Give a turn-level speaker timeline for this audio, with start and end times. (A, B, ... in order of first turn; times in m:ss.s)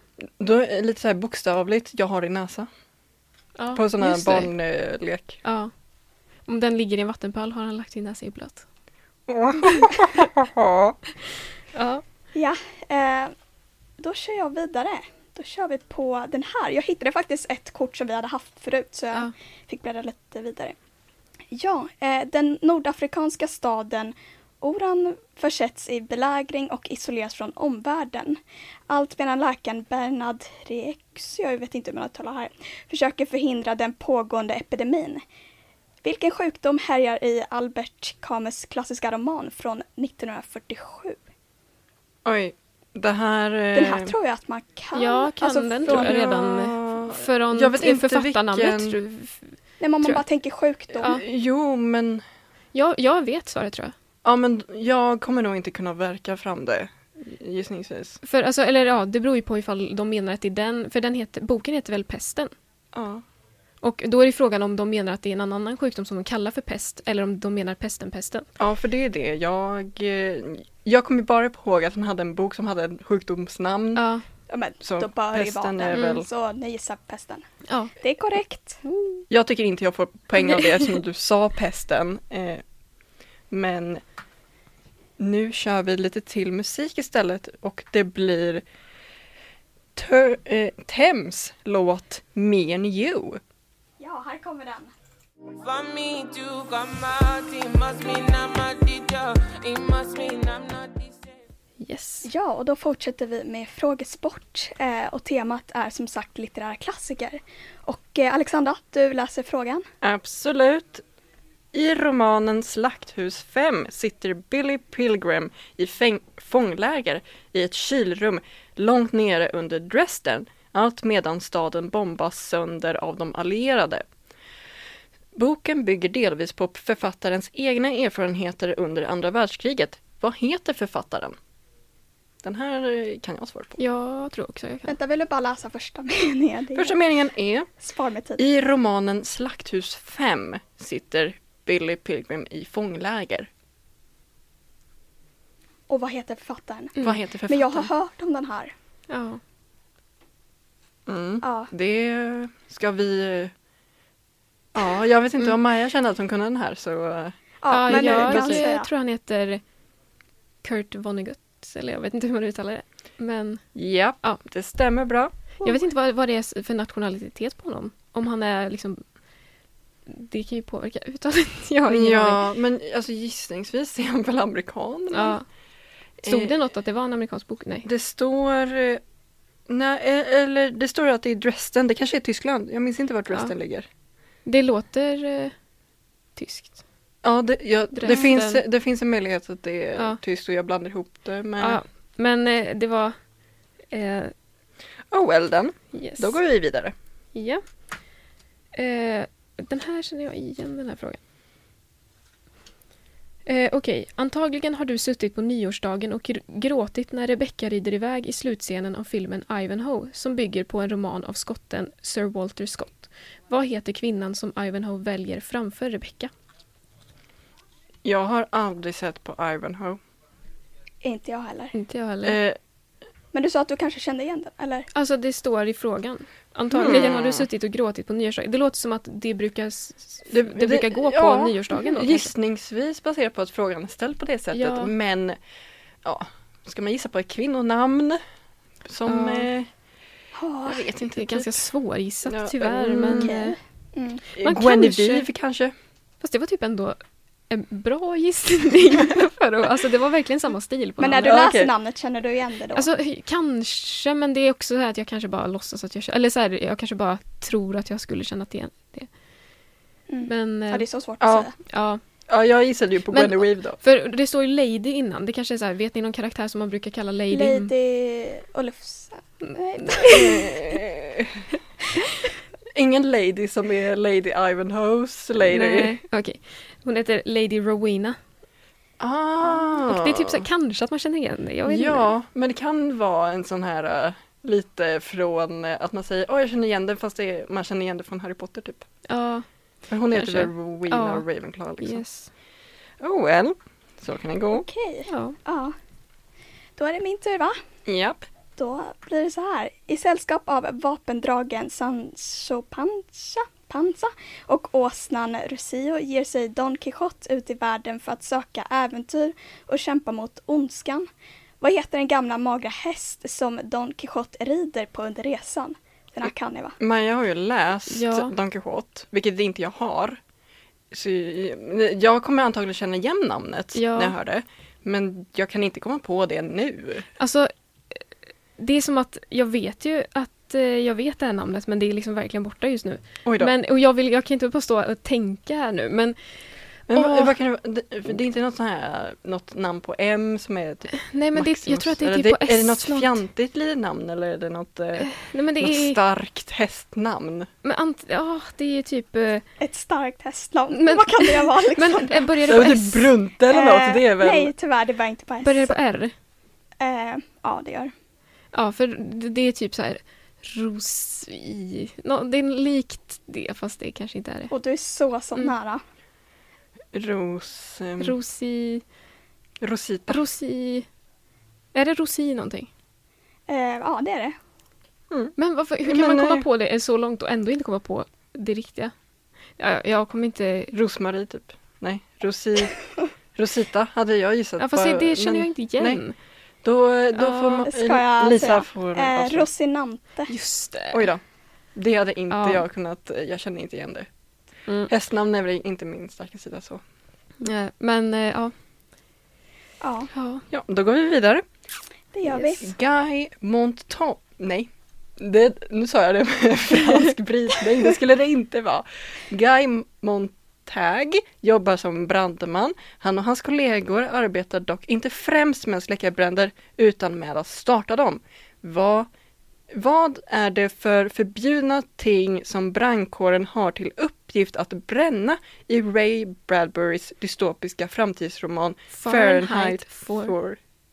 0:00.4-0:02.7 A
0:03.6-0:04.5 B
0:03.7-0:05.4 A
0:05.4-0:05.7 B
0:06.4-0:08.6 B
0:09.3-0:11.0 A
0:09.6-0:09.9 B
0:11.7-0:12.0 B
0:12.3-0:13.3 C
0:14.0-0:20.7 C
0:21.5-0:35.2 C
0:36.0-0:41.2 C
0:42.2-0:44.1 A
0:43.7-0:46.1 C
0:44.9-0:49.4 B
0:45.8-0:49.0 A
0:49.8-0:51.2 C
0:50.9-0:52.2 A
0:52.7-0:53.9 B
0:54.2-0:58.2 A
0:58.2-1:02.5 B
1:02.9-1:03.2 A
1:03.8-1:08.4 B
1:08.6-1:14.1 A
1:13.9-1:14.2 B
1:14.5-1:17.4 C
1:14.8-1:16.3 A
1:15.9-1:16.2 B
1:17.7-1:17.9 B
1:18.0-1:18.8 C
1:18.9-1:19.2 B
1:19.3-1:22.6 A
1:23.5-1:24.0 A
1:25.2-1:28.6 A
1:30.0-1:33.4 A
1:34.0-1:34.9 C
1:35.6-1:41.3 D
1:41.8-1:42.3 B
1:42.2-1:49.8 C
1:50.0-1:51.0 A
1:51.7-2:04.0 A
2:05.3-2:11.4 A
2:12.4-2:13.8 A
2:13.8-2:15.0 B
2:14.9-2:17.0 C
2:16.8-2:17.7 A
2:17.8-2:18.4 C
2:18.4-2:23.5 A
2:25.9-2:28.7 C
2:27.0-2:27.9 A
2:29.1-2:29.4 B
2:31.1-2:33.5 A
2:31.4-2:31.7 C
2:34.7-2:37.4 A
2:37.6-2:38.9 C
2:37.7-2:39.6 B
2:37.9-2:38.6 A
2:40.6-2:43.6 B
2:43.7-2:45.3 A
2:45.6-2:49.0 B
2:50.1-2:52.5 B
2:51.9-2:55.4 A
2:55.1-2:55.4 B
2:56.2-2:56.6 A
2:56.2-2:57.9 B
2:57.8-2:59.0 A
2:59.7-3:03.9 A
3:04.4-3:05.5 B
3:06.4-3:06.8 B
3:07.2-3:11.8 A
3:07.9-3:08.6 B
3:11.6-3:13.2 B
3:13.9-3:14.3 B
3:15.1-3:16.9 A
3:15.9-3:16.4 B
3:17.3-3:17.6 B
3:18.7-3:21.2 B
3:23.4-3:36.3 B
3:38.0-3:40.0 A
3:41.0-3:41.7 C
3:41.7-3:42.4 B
3:42.2-3:42.6 A
3:43.3-3:44.9 C
3:44.9-3:52.3 B
3:46.7-3:47.5 A
3:50.3-3:55.4 A
3:54.5-3:54.9 B
3:56.0-3:58.2 A
3:58.8-3:59.7 A
3:59.0-3:59.5 B
4:00.3-4:00.8 C
4:00.6-4:01.5 A
4:01.0-4:03.6 B
4:02.2-4:03.3 A
4:03.0-4:04.2 C
4:04.3-4:05.7 A
4:04.4-4:05.3 B
4:06.2-4:11.3 B
4:11.0-4:12.9 C
4:11.2-4:11.7 A
4:12.8-4:19.1 B
4:20.1-4:21.5 C
4:20.2-4:20.8 B
4:21.2-4:21.5 A
4:21.6-4:22.0 B
4:22.3-4:23.8 A
4:23.1-4:27.7 B
4:27.3-4:30.6 C
4:29.4-4:30.5 B
4:30.0-4:31.4 A
4:32.7-4:36.0 A
4:35.4-4:38.2 B
4:39.0-4:40.4 A
4:39.7-4:42.1 B
4:41.6-4:48.8 A
4:49.1-4:49.4 B
4:49.9-4:52.0 A
4:50.1-4:51.2 B
4:51.8-4:52.3 B
4:53.0-4:54.6 A
4:54.5-4:55.7 C
4:55.1-4:55.4 B
4:56.8-4:57.6 C
4:57.8-4:58.2 A
4:58.6-5:11.1 C
5:11.6-5:16.8 C
5:16.8-5:20.2 A
5:17.9-5:18.3 B
5:20.9-5:27.1 A
5:23.7-5:24.2 B
5:27.2-5:28.0 B
5:28.6-5:36.2 B
5:33.2-5:33.5 A
5:36.9-5:45.1 A
5:36.9-5:37.4 B
5:40.9-5:43.2 B
5:45.0-5:46.0 B
5:45.6-5:47.5 A
5:47.6-5:49.4 B
5:49.6-5:52.3 C
5:50.7-5:53.1 B
5:52.5-5:54.5 A
5:53.5-5:55.7 C
5:55.4-5:56.1 B
5:56.8-5:57.9 C
5:58.5-6:04.5 B
6:04.5-6:05.8 C
6:06.9-6:08.2 A
6:08.0-6:08.8 B
6:09.6-6:10.2 A
6:10.1-6:10.9 B
6:11.7-6:12.7 B
6:13.5-6:14.4 C
6:15.4-6:18.9 B
6:15.8-6:16.4 A
6:19.6-6:20.7 B
6:20.7-6:22.8 A
6:23.3-6:26.0 A
6:24.6-6:26.1 B
6:26.6-6:29.5 A
6:27.1-6:27.7 B
6:27.6-6:30.3 C
6:30.3-6:31.1 B
6:30.9-6:31.2 A
6:31.7-6:34.1 A
6:32.3-6:32.6 B
6:34.9-6:36.8 A
6:37.4-6:38.5 B
6:39.8-6:40.1 C
6:40.1-6:40.4 B
6:40.5-6:41.4 A
6:42.1-6:42.7 C
6:42.6-6:59.1 A
6:59.7-7:10.6 A
7:09.0-7:10.3 B